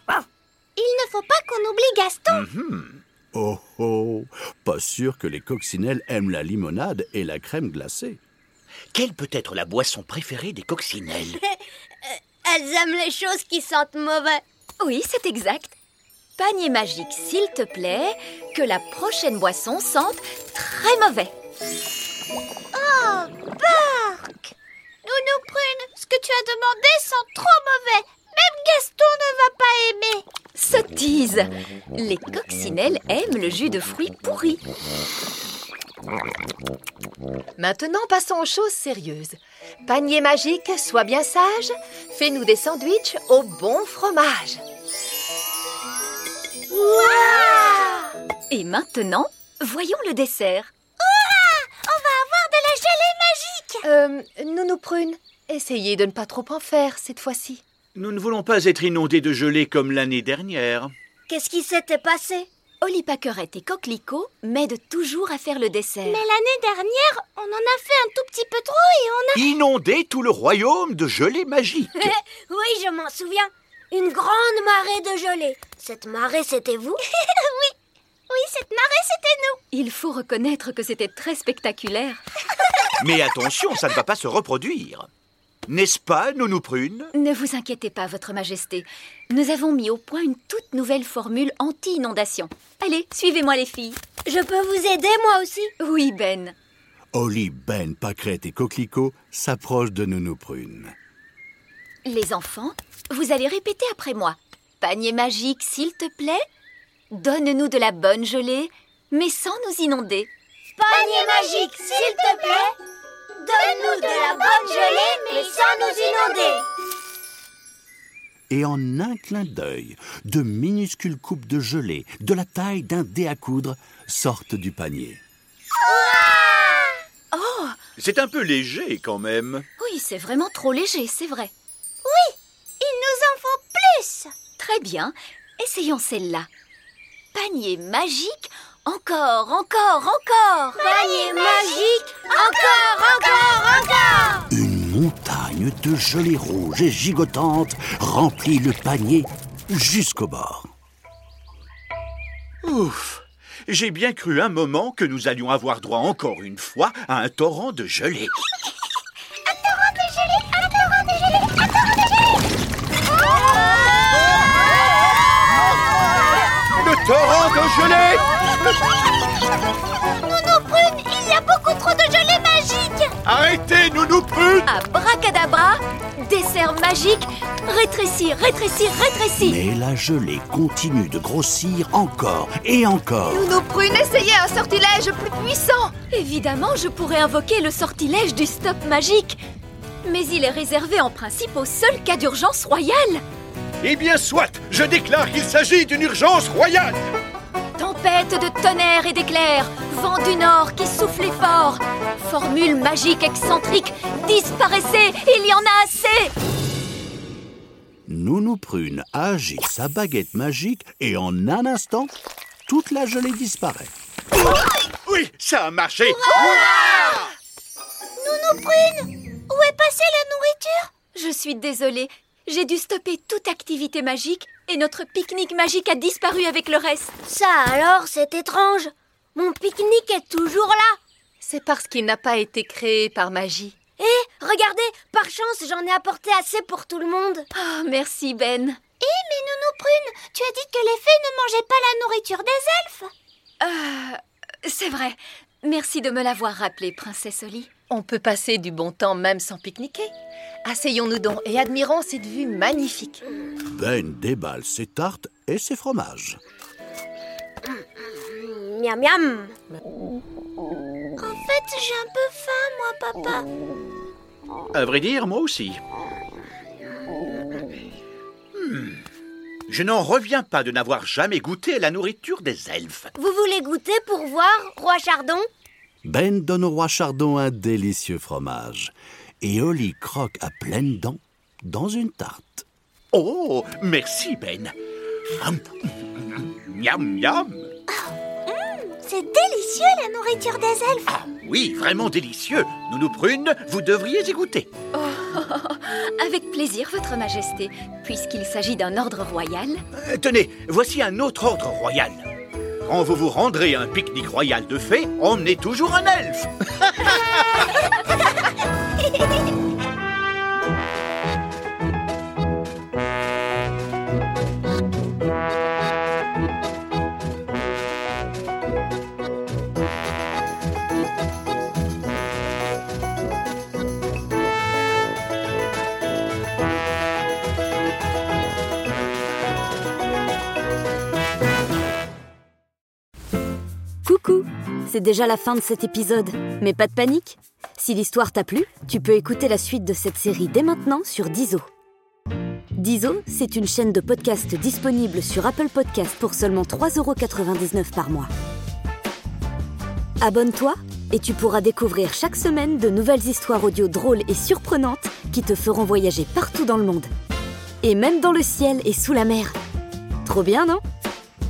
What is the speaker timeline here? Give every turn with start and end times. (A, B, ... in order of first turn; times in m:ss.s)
0:00.8-0:02.4 A
0:02.3-0:03.0 B
0:03.3-0:08.2 C
0:08.9-0:11.4 B
0:12.0-0:14.4 D
0:14.8-0:15.8 E
0:16.4-0:21.3 E
0:22.7-0:24.5 A
0:25.1-0:30.2 A
0:30.6-0:34.6 E
0:37.6-0:44.6 F
0:46.7-0:48.0 A
0:48.5-0:50.7 E
0:51.0-0:53.8 A
0:53.8-0:57.6 F
0:58.0-1:00.9 B
1:01.3-1:02.5 D
1:02.8-1:06.2 E
1:06.1-1:09.5 A
1:09.3-1:12.1 B
1:12.0-1:17.0 D
1:17.2-1:17.7 A
1:18.3-1:19.6 A
1:19.7-1:22.2 E
1:23.0-1:25.1 B
1:25.7-1:27.1 B
1:27.1-1:34.0 E
1:34.3-1:35.7 D
1:35.8-1:36.6 E
1:37.1-1:41.0 C
1:42.0-1:46.4 E
1:47.1-1:50.3 E
1:50.8-1:52.7 D
1:51.0-1:51.4 A
1:53.4-1:56.6 D
1:53.8-1:55.4 A
1:58.5-2:05.2 C
2:05.9-2:06.7 D
2:06.2-2:06.8 A
2:07.3-2:07.8 E
2:08.0-2:09.6 B
2:09.8-2:11.5 E
2:12.0-2:14.3 A
2:14.6-2:16.5 E
2:17.3-2:20.8 E
2:20.8-2:24.4 D
2:21.2-2:21.4 A
2:22.3-2:23.9 A
2:24.5-2:30.7 C
2:32.6-2:38.3 B
2:39.5-2:42.4 A
2:46.8-2:48.2 B
2:50.1-2:53.1 A
2:53.2-2:54.7 B
2:54.7-2:59.6 E
2:59.4-3:03.5 C
3:03.3-3:05.9 F
3:06.1-3:09.4 E
3:10.0-3:13.2 E
3:13.8-3:17.0 B
3:17.8-3:26.3 E
3:28.1-3:32.1 C
3:32.7-3:33.9 C
3:35.0-3:37.3 B
3:36.5-3:36.9 A
3:38.2-3:40.9 A
3:41.1-3:47.1 E
3:47.3-3:51.0 D
3:51.4-3:53.8 F
3:54.0-3:57.5 D
3:57.5-3:58.8 E
3:59.0-4:03.1 A
4:03.6-4:07.7 E
4:07.9-4:10.1 F
4:10.6-4:13.2 F
4:13.7-4:16.4 C
4:17.7-4:19.6 D
4:21.2-4:23.5 A
4:24.7-4:25.8 B
4:28.6-4:29.0 B
4:29.7-4:33.1 B
4:33.2-4:35.5 D
4:36.0-4:42.6 C
4:43.1-4:44.7 B
4:45.4-4:47.7 B
4:48.5-4:51.1 A
4:51.1-4:54.7 B
4:54.9-4:59.8 E
5:00.0-5:02.3 B
5:02.9-5:07.7 B
5:34.0-5:41.7 G
5:42.8-5:48.3 G
5:50.2-5:57.1 G
5:57.8-5:59.6 G
6:00.2-6:00.8 G